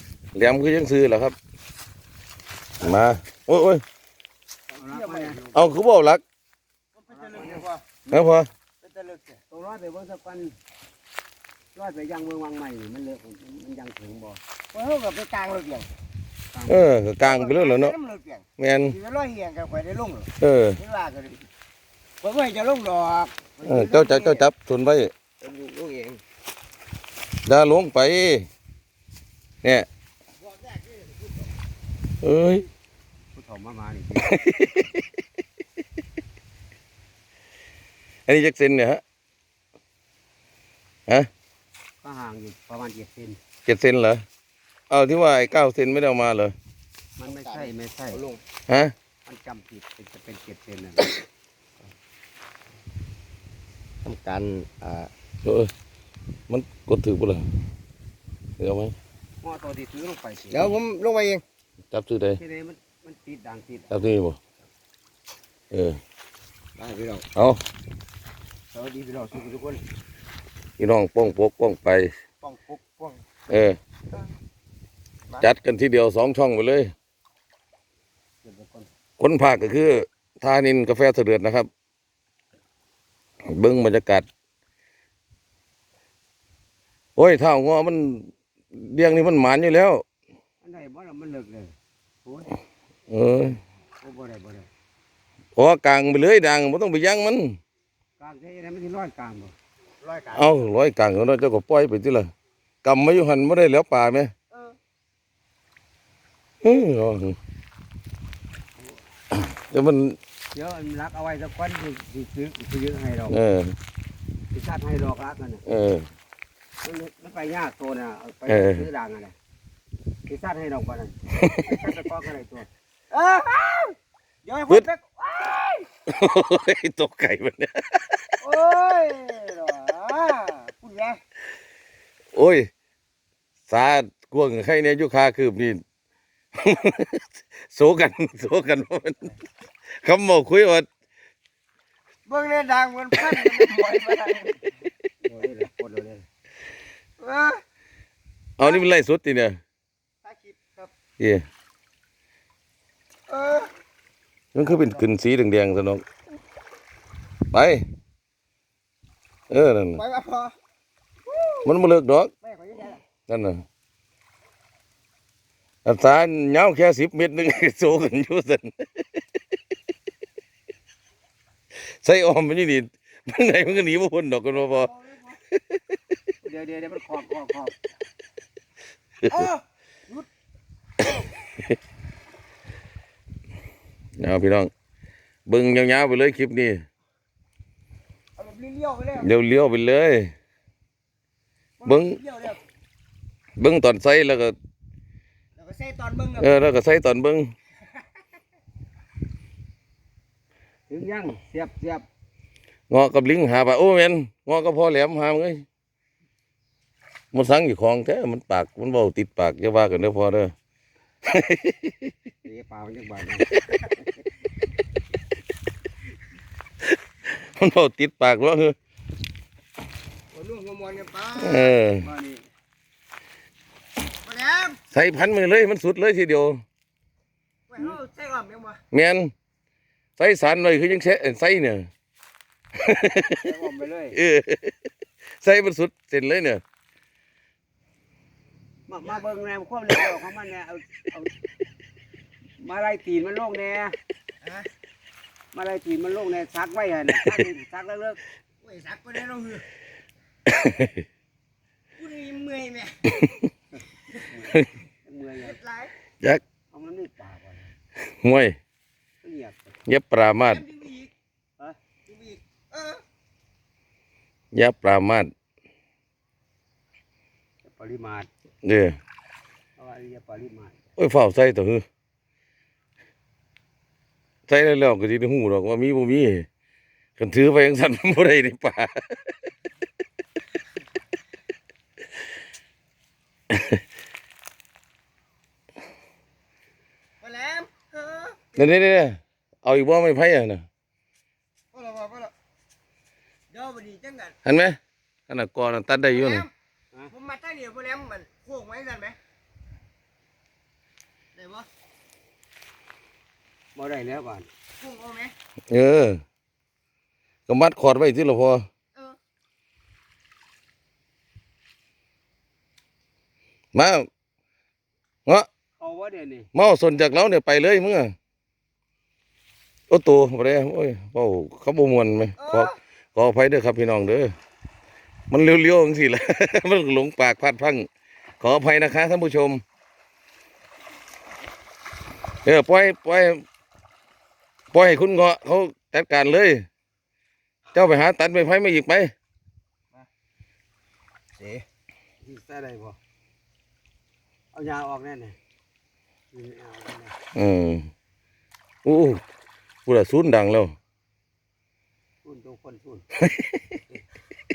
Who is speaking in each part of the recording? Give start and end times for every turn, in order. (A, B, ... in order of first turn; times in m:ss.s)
0:00.4-0:01.4 A
0:02.8-0:03.8 A
0:04.7-0:05.7 B
0:04.9-0:05.4 C
0:05.5-0:06.2 A
0:06.9-0:07.8 C
0:07.1-0:08.2 B
0:08.1-0:08.5 A
0:08.8-0:09.4 C
0:09.5-0:10.6 B
0:11.8-0:14.4 B
0:14.7-0:15.9 C
0:16.5-0:16.9 B
0:16.7-0:18.0 A
0:17.2-0:21.5 C
0:18.6-0:19.0 A
0:20.4-0:20.8 A
0:22.2-0:24.5 C
0:23.6-0:25.1 A
0:25.4-0:26.2 C
0:27.4-0:28.5 A
0:30.4-0:31.4 C
0:32.2-0:32.7 A
0:33.4-0:34.4 B
0:34.3-0:34.9 A
0:38.3-0:39.0 A
0:42.0-0:43.4 B
0:43.7-0:44.2 A
0:44.9-0:46.6 A
0:47.2-0:48.2 B
0:47.2-0:48.4 C
0:48.7-0:48.9 A
0:49.3-0:51.2 B
0:54.0-0:55.1 C
0:55.4-0:55.7 A
0:56.5-0:57.5 A
0:58.6-0:59.0 A
0:59.4-1:00.8 B
1:00.5-1:01.4 C
1:01.9-1:02.4 A
1:02.4-1:04.0 B
1:03.9-1:04.4 A
1:05.7-1:06.0 A
1:06.8-1:07.2 C
1:07.4-1:07.6 A
1:08.7-1:09.8 B
1:10.8-1:12.1 A
1:12.4-1:13.2 C
1:13.5-1:13.8 A
1:15.4-1:16.9 A
1:18.4-1:18.9 B
1:19.2-1:21.7 A
1:23.4-1:24.3 A
1:27.2-1:30.0 A
1:30.6-1:31.7 B
1:32.2-1:32.5 B
1:33.1-1:33.6 A
1:34.0-1:34.7 B
1:35.6-1:37.6 A
1:38.2-1:39.5 B
1:40.0-1:40.7 C
1:40.4-1:42.3 A
1:42.8-1:44.3 A
1:44.5-1:44.8 C
1:46.6-1:47.4 A
1:49.4-1:50.2 A
1:50.5-1:53.4 B
1:53.3-1:53.8 A
1:54.5-1:55.6 B
1:55.7-1:56.1 A
1:56.8-1:59.4 B
1:58.5-1:58.9 A
2:00.3-2:02.7 B
2:01.4-2:01.7 A
2:03.1-2:05.9 C
2:06.1-2:08.2 A
2:08.4-2:11.2 C
2:12.4-2:12.7 A
2:13.7-2:15.8 A
2:16.6-2:19.4 A
2:20.0-2:20.9 A
2:22.3-2:24.6 C
2:25.2-2:26.2 B
2:27.2-2:27.6 C
2:28.6-2:29.6 A
2:28.6-2:28.9 C
2:30.2-2:30.9 C
2:31.2-2:31.4 A
2:33.3-2:33.7 C
2:34.5-2:36.0 A
2:34.6-2:35.0 C
2:37.5-2:37.9 A
2:39.5-2:40.0 A
2:40.0-2:40.5 C
2:41.3-2:41.7 C
2:41.6-2:42.3 A
2:42.4-2:43.0 C
2:43.3-2:43.6 A
2:45.8-2:49.0 A
2:51.9-2:54.9 A
2:54.6-2:55.4 C
2:56.4-2:57.7 B
2:59.3-3:00.3 C
3:04.2-3:04.7 A
3:05.5-3:06.8 A
3:08.4-3:09.3 C
3:09.2-3:10.3 A
3:11.8-3:12.6 C
3:11.8-3:12.2 A
3:13.6-3:14.6 A
3:15.6-3:16.6 C
3:16.4-3:17.5 A
3:20.9-3:22.1 B
3:22.9-3:25.6 A
3:27.3-3:30.5 A
3:31.3-3:32.1 A
3:32.4-3:33.5 B
3:36.8-3:38.8 A
3:40.3-3:41.7 C
3:41.4-3:42.1 A
3:42.0-3:42.4 B
3:44.2-3:44.8 C
3:44.9-3:46.6 A
3:47.7-3:48.8 C
3:48.9-3:49.3 A
3:50.2-3:51.9 A
3:52.8-3:53.5 A
3:53.3-3:54.2 B
3:54.2-3:54.8 A
3:55.4-3:56.6 A
3:58.9-4:01.3 B
4:02.6-4:04.0 B
4:04.4-4:04.7 C
4:05.5-4:08.2 B
4:08.6-4:09.6 C
4:10.5-4:11.0 A
4:12.0-4:13.2 C
4:14.3-4:15.6 B
4:15.4-4:15.9 C
4:16.7-4:17.7 B
4:18.0-4:18.6 A
4:19.2-4:19.8 B
4:19.9-4:20.6 A
4:20.4-4:21.1 C
4:22.1-4:23.0 C
4:24.5-4:25.3 A
4:27.6-4:28.3 B
4:28.6-4:29.0 A
4:29.8-4:30.8 B
4:31.0-4:31.8 A
4:34.5-4:36.5 A
4:37.2-4:39.3 A
4:43.5-4:43.8 A
4:47.2-4:48.7 C
4:48.6-4:50.6 A
4:51.7-4:52.3 C
4:53.5-4:54.4 C
4:54.4-4:54.8 A
4:55.3-4:56.5 A
4:56.1-4:56.5 C
4:57.1-4:59.2 C
5:01.4-5:01.7 C
5:03.8-5:04.5 B
5:04.8-5:05.3 C
5:05.7-5:06.2 A
5:07.5-5:08.6 A
5:13.7-5:14.1 A
5:15.8-5:16.5 B
5:16.5-5:18.1 A
5:19.9-5:24.3 A
5:22.4-5:22.8 C
5:25.3-5:27.9 A
5:28.4-5:29.6 A
5:32.4-5:33.4 A
5:34.7-5:36.7 A
5:37.7-5:39.1 A
5:41.4-5:41.6 C
5:42.2-5:43.0 B
5:44.5-5:45.4 B
5:46.3-5:47.1 B
5:47.4-5:47.9 A
5:48.8-5:49.2 A
5:49.9-5:50.8 A
5:52.2-5:53.0 B
5:53.2-5:53.6 A